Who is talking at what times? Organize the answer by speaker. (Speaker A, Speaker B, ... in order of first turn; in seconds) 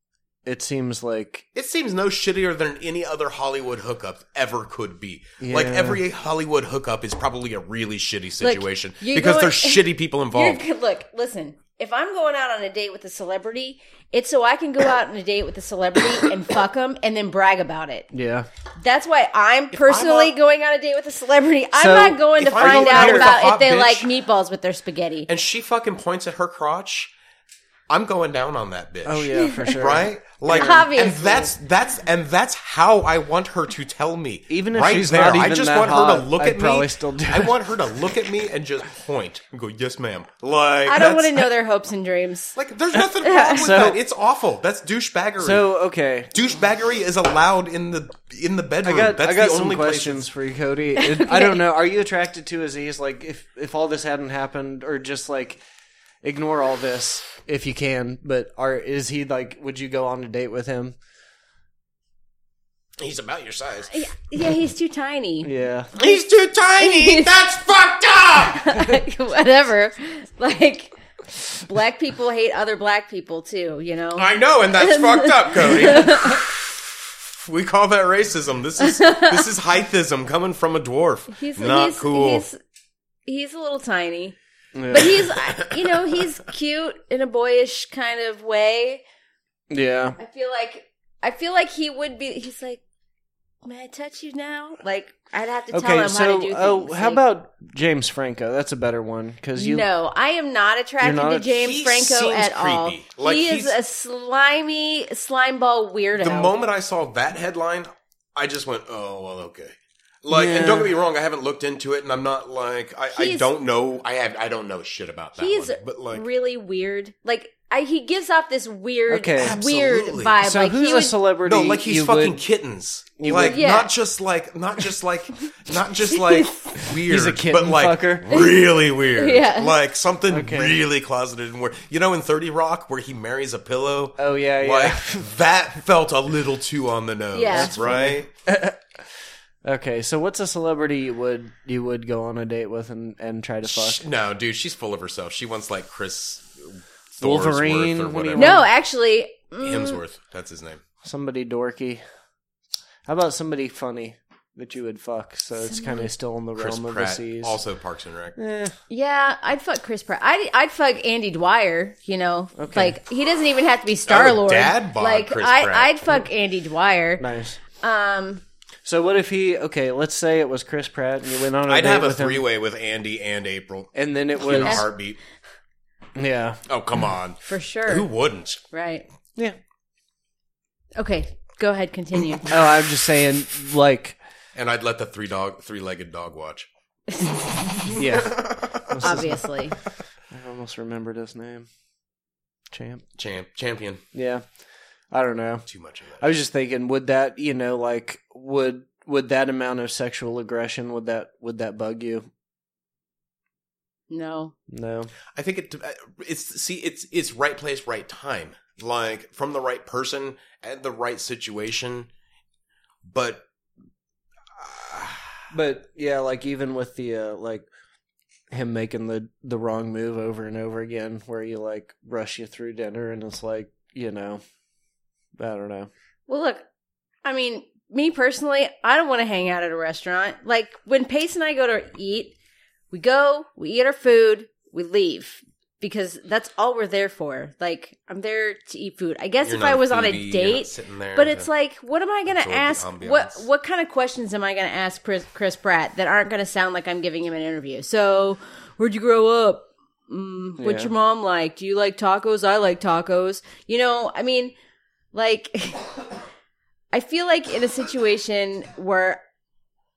Speaker A: 0.5-1.5, 5.4-6.0, 18.1-18.5, 21.7-23.4, 29.1-30.9, 34.5-38.1, 43.5-44.0, 45.4-46.3, 48.8-55.6, 56.2-61.0, 65.4-65.9, 84.8-85.3, 89.7-90.2, 95.7-99.9, 101.0-101.5, 110.3-111.0, 119.1-119.6, 120.4-122.4, 123.2-123.6, 127.0-128.4, 130.3-130.9, 134.2-135.4, 137.5-138.8, 139.6-144.0, 147.2-148.7, 151.0-152.0, 153.1-157.6, 158.4-158.8, 162.6-163.0, 167.2-167.6, 168.8-172.4, 173.9-174.9, 176.2-176.6, 182.5-184.2, 188.0-189.5, 190.3-191.7, 192.7-193.1, 194.1-194.4, 195.1-195.7, 196.2-202.3, 204.7-205.1, 215.5-217.7, 218.5-224.4, 225.4-225.9, 250.6-250.9
Speaker B: 1.6-10.6, 19.7-20.3, 22.4-24.1, 25.3-27.1, 27.9-41.5, 42.6-45.7, 46.3-50.3, 63.0-64.1, 66.0-68.8, 74.2-82.5, 85.4-86.1, 101.6-103.8, 106.2-116.3, 119.4-120.4, 121.4-138.3, 143.7-148.7, 149.6-150.8, 156.6-158.4, 164.1-166.1, 171.7-175.2, 176.7-178.6, 184.6-186.7, 187.9-189.0, 193.2-194.0, 195.7-196.4, 205.3-212.1, 213.1-213.4, 214.6-215.5, 239.4-241.5, 242.3-243.5
Speaker C: 8.4-18.1, 18.8-25.3, 29.4-29.7, 30.5-31.5, 40.9-42.6, 43.2-43.6, 51.0-51.6, 63.9-65.5, 66.8-67.3, 68.5-70.9, 71.4-76.4, 78.8-79.5, 81.3-82.6, 83.3-84.3, 84.9-89.0, 90.2-92.8, 93.6-97.2, 99.6-106.5, 113.1-113.5, 115.4-121.2, 123.4-123.9, 126.1-126.9, 129.1-129.8, 137.3-138.0, 148.4-150.0, 155.6-156.1, 158.9-168.4, 177.4-178.1, 178.7-179.1, 181.0-182.5, 187.1-187.9, 189.0-189.8, 204.1-204.6, 226.3-226.7, 227.2-232.3, 232.9-254.6, 255.1-255.9, 256.9-259.2